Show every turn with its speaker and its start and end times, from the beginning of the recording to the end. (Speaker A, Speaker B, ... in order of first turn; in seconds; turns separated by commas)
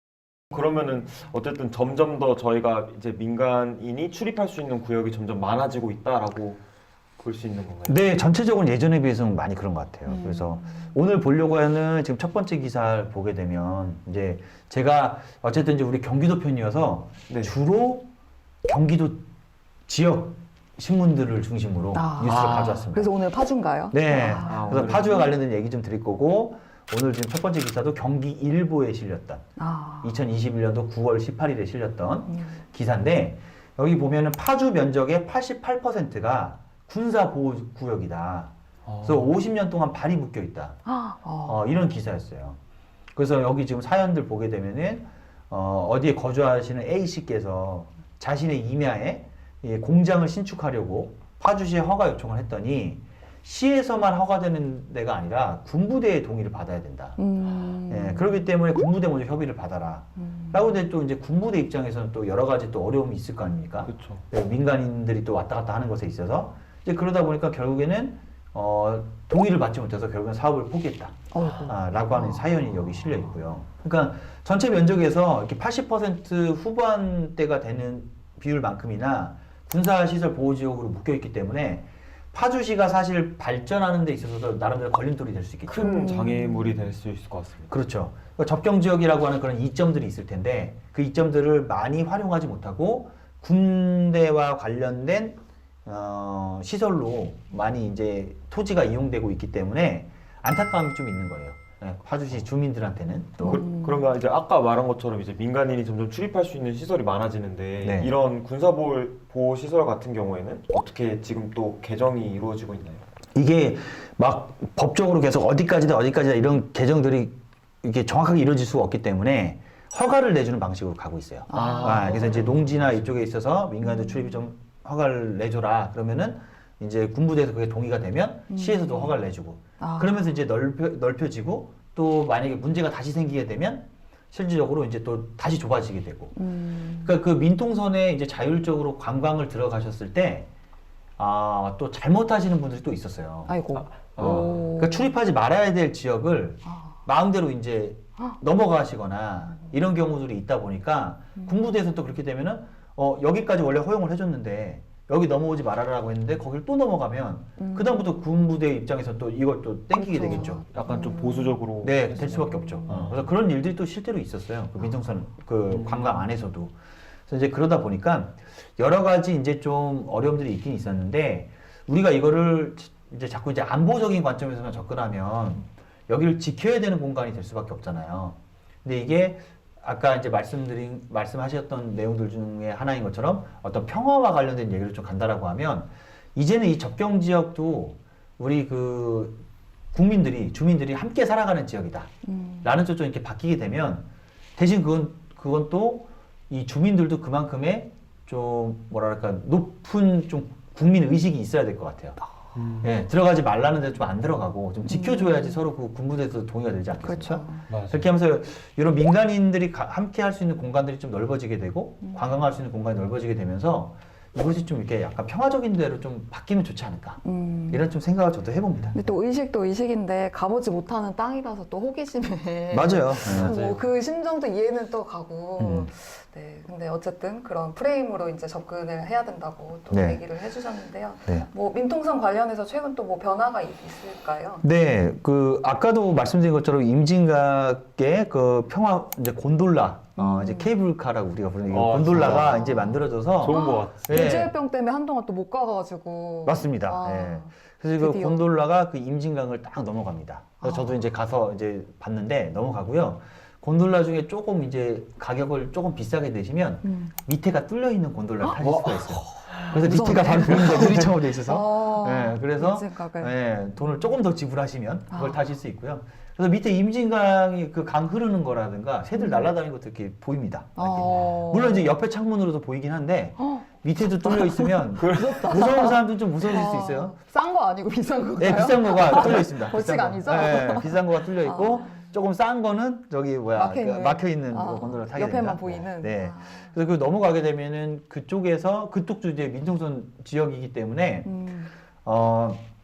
Speaker A: 0.5-6.6, Speaker A: 7.2-8.0, Speaker B: 7.9-18.1, Speaker C: 10.1-10.9, Speaker A: 17.3-17.5, Speaker B: 18.7-19.2, Speaker B: 19.9-23.1, Speaker C: 21.9-24.6, Speaker B: 23.9-29.4, Speaker A: 24.4-25.3, Speaker C: 29.6-30.1, Speaker B: 30.0-40.8, Speaker C: 32.3-32.6, Speaker A: 38.9-39.2, Speaker C: 40.9-41.7, Speaker B: 41.5-42.6, Speaker B: 43.1-57.2, Speaker C: 57.2-58.3, Speaker B: 57.9-85.9, Speaker C: 60.2-60.7, Speaker A: 63.9-64.2, Speaker C: 71.3-72.4, Speaker A: 85.7-87.7, Speaker C: 85.8-86.7, Speaker B: 87.7-103.6, Speaker A: 103.4-113.0, Speaker C: 103.4-104.0, Speaker B: 107.8-108.1, Speaker B: 113.3-136.4, Speaker C: 121.5-122.4, Speaker A: 121.5-122.5, Speaker C: 123.9-124.2, Speaker C: 128.5-129.1, Speaker C: 129.8-130.1, Speaker C: 136.4-137.1, Speaker B: 137.0-140.5, Speaker B: 141.2-143.5, Speaker C: 143.5-145.1, Speaker A: 144.2-144.6, Speaker B: 144.2-160.7, Speaker C: 146.7-146.9, Speaker C: 157.6-158.0, Speaker C: 159.9-161.6, Speaker A: 160.4-163.3, Speaker B: 161.8-166.7, Speaker A: 165.7-166.2, Speaker B: 167.3-189.4, Speaker B: 189.9-192.1, Speaker C: 192.2-192.7, Speaker B: 192.6-194.1, Speaker B: 194.6-202.2, Speaker A: 202.6-202.9, Speaker B: 202.8-219.0, Speaker C: 204.9-205.6, Speaker C: 207.0-207.7, Speaker A: 207.7-208.1, Speaker C: 217.2-217.9, Speaker C: 218.9-234.7, Speaker B: 222.7-223.6, Speaker A: 223.2-223.8, Speaker B: 225.6-225.9, Speaker B: 229.9-230.2, Speaker B: 234.6-244.5, Speaker C: 240.2-240.7, Speaker A: 241.7-242.6, Speaker C: 242.2-248.5, Speaker A: 243.4-244.3, Speaker B: 246.5-277.2, Speaker C: 250.6-251.0, Speaker C: 256.8-257.1, Speaker C: 258.4-263.3, Speaker C: 265.1-265.4, Speaker C: 269.2-269.5, Speaker C: 270.8-271.9, Speaker C: 274.2-282.1, Speaker A: 275.0-275.7, Speaker B: 278.4-291.3, Speaker C: 283.5-286.7, Speaker C: 291.2-291.7, Speaker B: 292.1-292.6